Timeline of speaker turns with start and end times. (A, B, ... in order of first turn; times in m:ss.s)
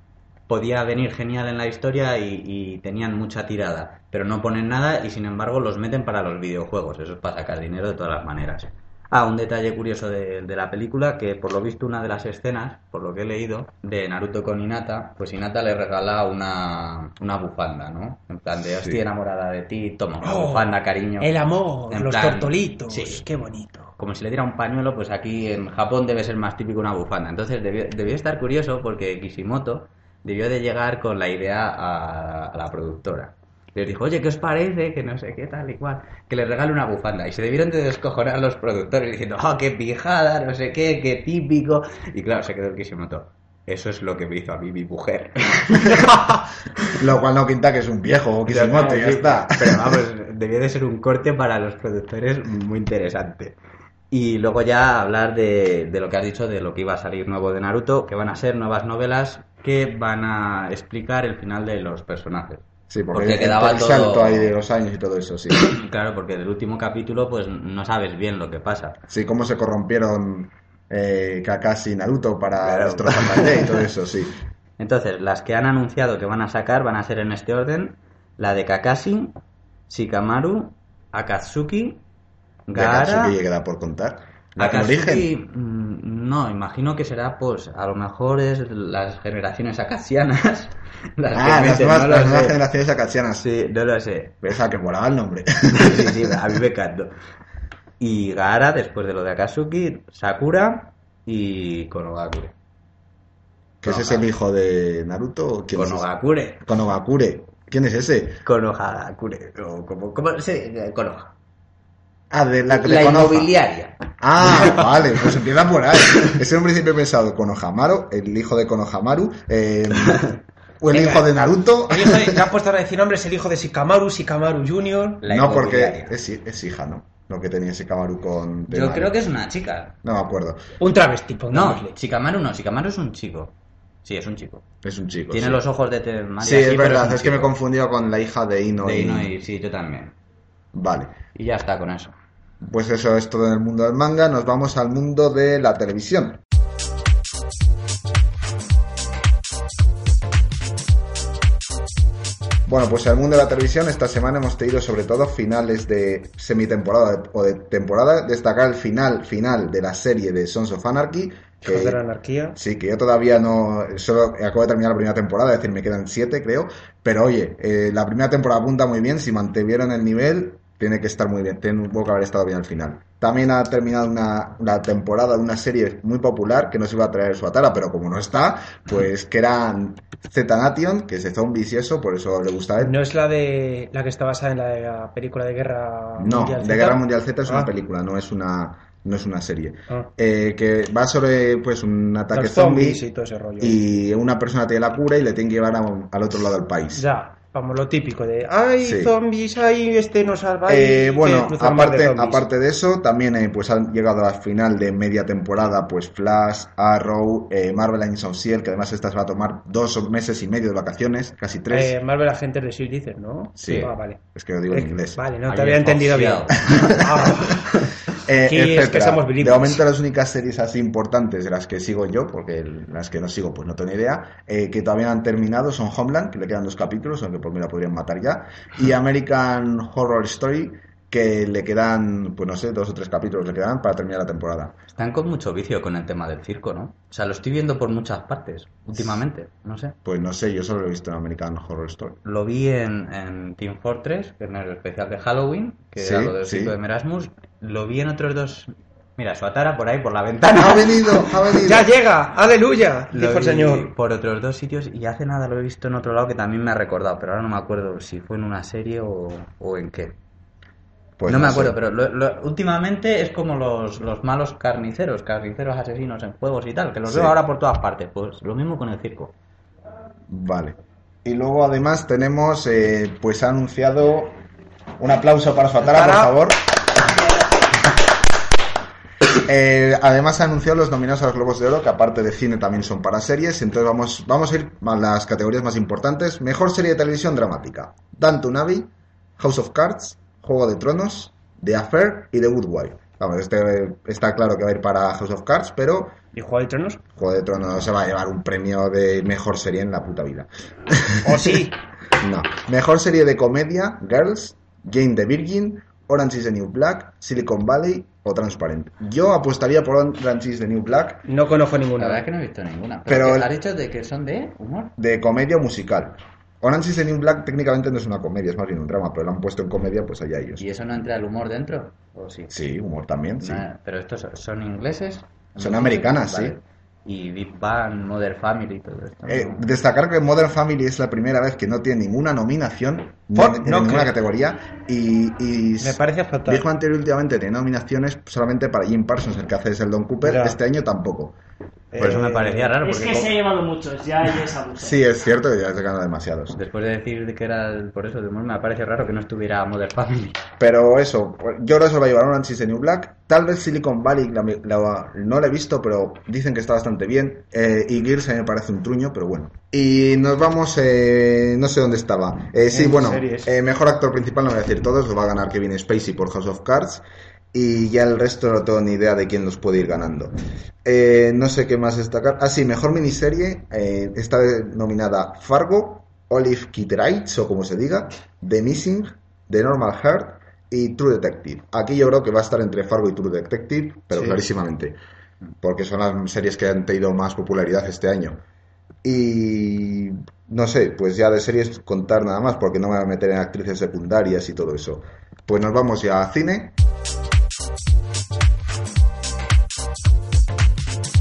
0:00.5-0:21.3 A
0:18.6-0:19.0 B
0:20.2-0:23.9 C
0:21.9-0:23.2 A
0:24.0-0:46.3 A
0:47.0-0:50.0 B
0:48.5-0:53.5 A
0:54.1-1:04.6 A
1:02.9-1:05.6 B
1:05.5-1:09.0 A
1:09.1-1:14.3 B
1:12.6-1:13.8 A
1:14.8-1:19.3 A
1:19.9-1:22.0 A
1:22.7-1:23.3 A
1:22.7-1:25.3 B
1:24.6-1:32.6 A
1:31.3-1:33.5 B
1:33.4-1:34.4 A
1:34.4-1:36.3 B
1:35.7-1:37.1 A
1:38.0-1:42.5 A
1:43.8-1:46.1 B
1:43.8-1:44.3 A
1:45.7-1:46.6 A
1:46.6-1:48.4 B
1:48.4-1:51.3 A
1:52.3-1:53.5 B
1:52.7-1:54.8 A
1:54.2-2:02.5 B
2:00.9-2:01.3 C
2:01.9-2:05.2 C
2:05.2-2:06.2 A
2:05.2-2:09.1 B
2:08.7-2:09.9 A
2:10.0-2:10.6 B
2:10.8-2:11.9 C
2:11.5-2:13.5 A
2:14.0-2:14.6 A
2:14.8-2:15.6 B
2:15.3-2:17.5 A
2:16.4-2:19.3 B
2:18.8-2:20.1 A
2:20.7-2:21.1 B
2:21.3-2:22.1 A
2:22.6-2:26.4 B
2:32.6-2:42.0 B
2:41.6-2:42.6 C
2:42.5-3:02.9 B
3:02.8-3:07.7 C
3:06.2-3:13.0 B
3:12.3-3:13.8 C
3:13.6-3:17.1 B
3:16.9-3:22.5 C
3:18.8-3:19.1 B
3:20.7-3:31.9 B
3:31.7-3:37.7 C
3:33.6-3:35.2 B
3:35.4-3:37.1 A
3:36.7-3:37.2 B
3:38.2-3:54.7 B
3:38.4-3:39.8 C
3:54.9-3:59.9 A
4:00.0-4:02.2 B
4:02.2-4:11.2 A
4:06.0-4:06.7 B
4:10.6-4:11.9 B
4:11.6-4:13.9 C
4:13.1-4:20.1 A
4:21.2-4:21.7 B
4:21.3-4:29.3 A
4:27.0-4:27.3 B
4:30.3-4:34.4 B
4:35.0-4:36.6 B
4:35.8-4:36.3 C
4:39.4-4:56.1 B
4:56.3-4:57.0 C
4:57.2-5:01.6 B
5:01.2-5:01.8 C
5:02.2-5:11.2 B
5:11.2-5:12.2 C
5:12.0-5:14.9 A
5:13.1-5:13.5 B
5:15.0-5:20.6 B
5:20.6-5:22.5 A
5:22.5-5:23.6 B
5:23.4-5:29.7 A
5:25.6-5:26.6 B
5:29.3-5:41.4 B
5:33.3-5:34.1 C
5:35.8-5:36.6 C
5:40.2-5:40.6 C
5:41.9-5:42.7 C
5:42.0-5:43.4 A
5:42.0-5:42.3 B
5:42.8-5:45.0 D
5:44.8-5:46.6 B
5:46.5-5:50.4 A
5:50.6-6:25.0 B
6:02.7-6:03.5 C
6:24.1-6:24.4 C
6:25.6-6:28.4 B
6:29.0-6:36.7 B